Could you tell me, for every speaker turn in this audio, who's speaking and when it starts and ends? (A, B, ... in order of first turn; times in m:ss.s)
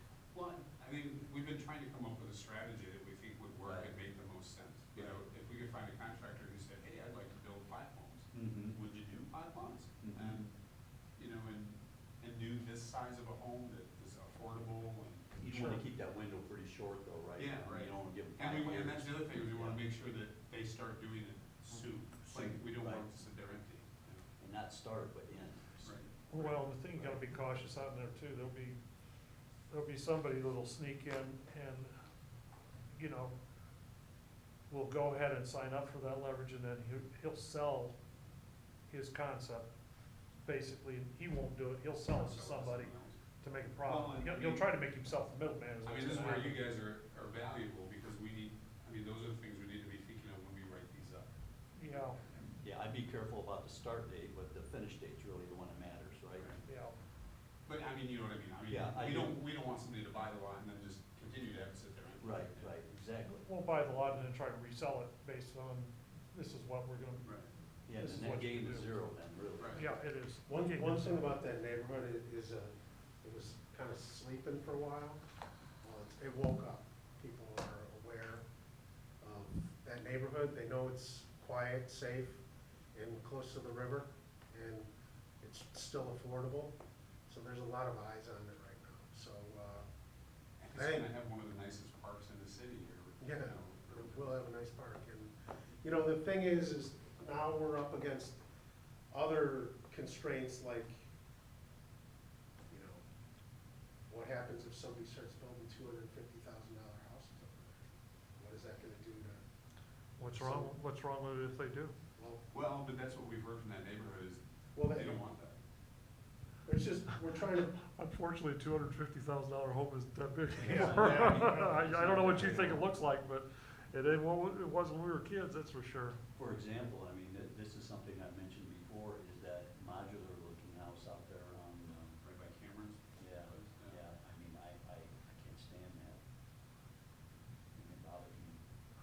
0:00.3-0:10.5 A
0:03.6-0:03.9 B
0:08.3-0:08.8 B
0:10.0-0:10.4 B
0:11.2-0:15.4 A
0:15.4-0:19.8 B
0:15.4-0:15.8 C
0:17.4-0:24.3 A
0:22.3-0:23.0 B
0:24.4-0:25.9 B
0:25.8-0:26.1 A
0:26.3-0:28.8 C
0:29.7-0:31.9 C
0:32.9-0:33.3 C
0:34.7-0:38.0 C
0:38.9-0:39.7 C
0:40.4-0:46.7 C
0:42.0-0:43.2 A
0:43.8-0:44.8 A
0:45.8-0:51.3 A
0:51.8-0:52.2 C
0:51.9-0:52.3 A
0:52.6-0:56.6 B
0:56.6-0:57.0 C
0:57.7-1:02.7 A
0:58.7-0:59.4 B
1:02.2-1:03.4 B
1:03.2-1:07.4 C
1:07.2-1:07.5 A
1:07.8-1:09.8 B
1:07.9-1:09.0 C
1:09.7-1:11.4 C
1:10.5-1:15.2 D
1:15.8-1:18.4 D
1:19.2-1:22.4 D
1:22.9-1:24.9 D
1:25.4-1:26.7 D
1:27.3-1:29.9 D
1:30.6-1:34.3 A
1:30.7-1:31.1 D
1:33.2-1:38.4 D
1:39.1-1:41.0 D
1:42.7-1:43.0 D
1:44.1-1:47.8 D
1:48.4-1:49.4 D
1:50.2-1:52.0 C
1:50.2-1:50.7 D
1:52.2-1:52.4 D
1:52.5-1:55.6 A
1:54.7-1:55.2 D
1:56.6-1:57.7 D
1:57.6-2:06.2 C
2:00.6-2:02.8 B
2:00.6-2:01.5 D
2:00.9-2:01.5 A
2:06.4-2:12.2 B
2:12.2-2:14.0 A
2:13.2-2:16.2 B
2:17.7-2:18.6 B